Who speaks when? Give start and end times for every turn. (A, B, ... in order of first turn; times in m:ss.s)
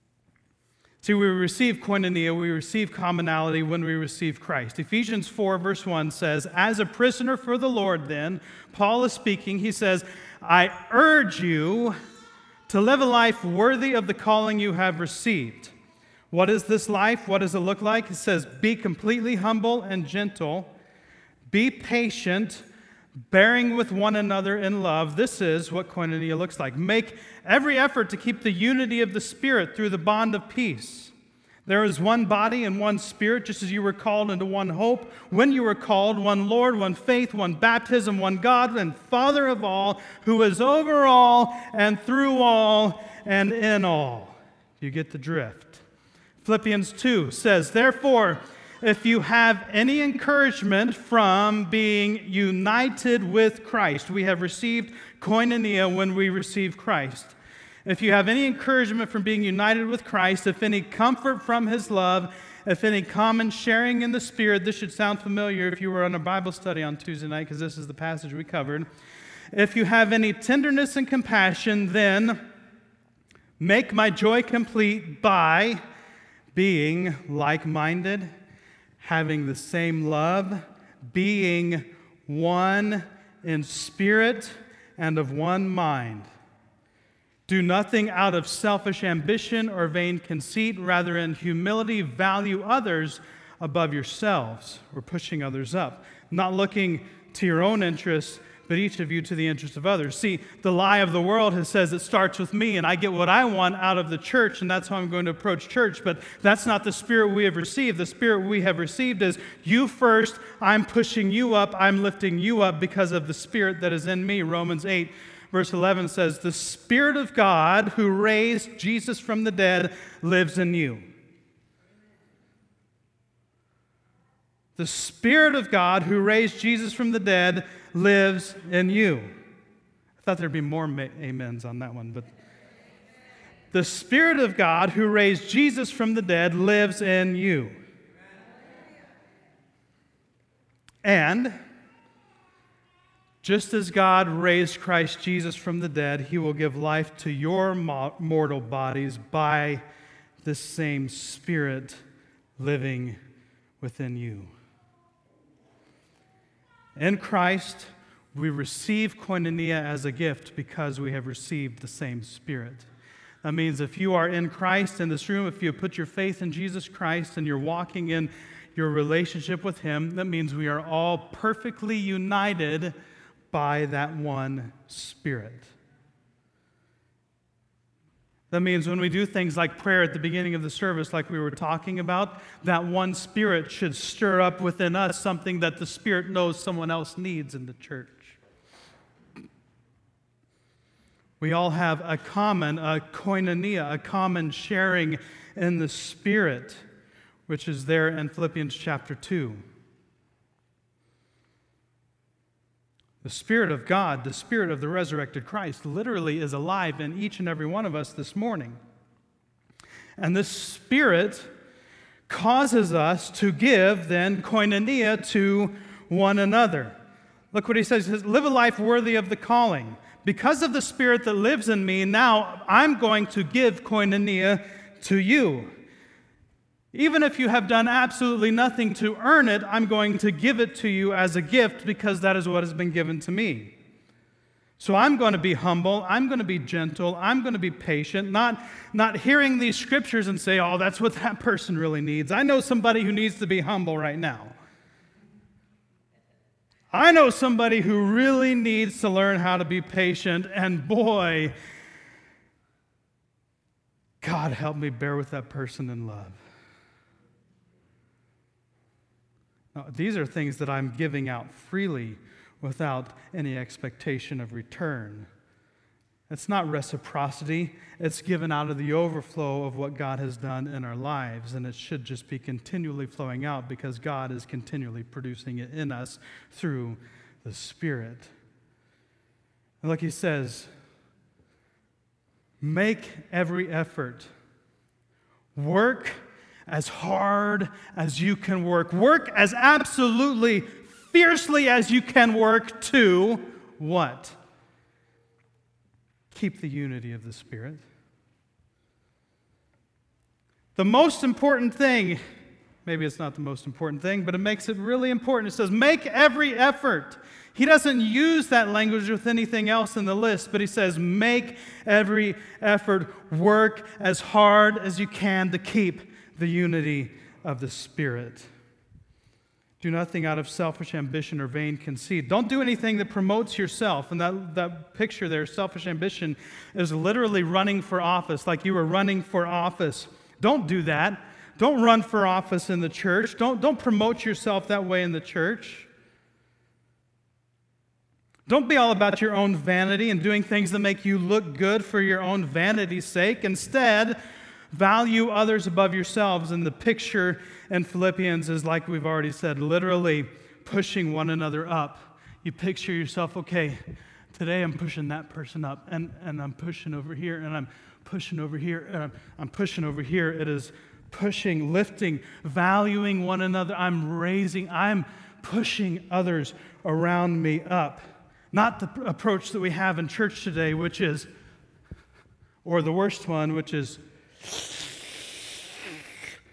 0:01.0-0:12.0 A
0:12.7-0:15.7 A
0:16.3-0:20.7 A
0:21.5-0:22.6 A
0:23.3-0:31.1 A
0:31.6-0:45.8 A
0:46.4-0:57.3 A
0:57.8-1:08.9 A
1:09.5-1:12.4 A
1:13.6-1:15.8 A
1:16.5-1:18.3 A
1:19.0-1:26.3 A
1:27.5-2:01.0 A
2:04.8-2:09.3 A
2:10.2-2:12.3 A
2:13.7-2:17.8 A
2:21.0-2:21.6 A
2:23.4-2:29.8 A
2:30.4-2:32.0 A
2:32.6-2:33.2 A
2:33.8-2:34.5 A
2:37.0-2:42.9 A
2:43.4-2:52.9 A
2:53.5-2:55.7 A
2:58.5-3:08.4 A
3:11.4-3:16.8 A
3:17.5-3:19.6 A
3:23.2-3:28.8 A
3:30.2-3:31.5 A
3:32.3-3:37.0 A
3:37.5-3:45.7 A
3:46.9-3:53.7 A
3:54.8-4:04.5 A
4:06.9-4:11.5 A
4:14.2-4:16.4 A
4:19.7-4:25.3 A
4:26.3-4:38.3 A
4:39.8-4:40.7 A
4:42.6-4:44.3 A
4:45.5-4:54.4 A
4:56.3-4:57.8 A
5:00.8-5:02.2 A
5:02.8-5:18.5 A
5:19.8-5:35.9 A
5:38.5-5:44.2 A
5:44.7-6:11.3 A
6:12.6-6:15.2 A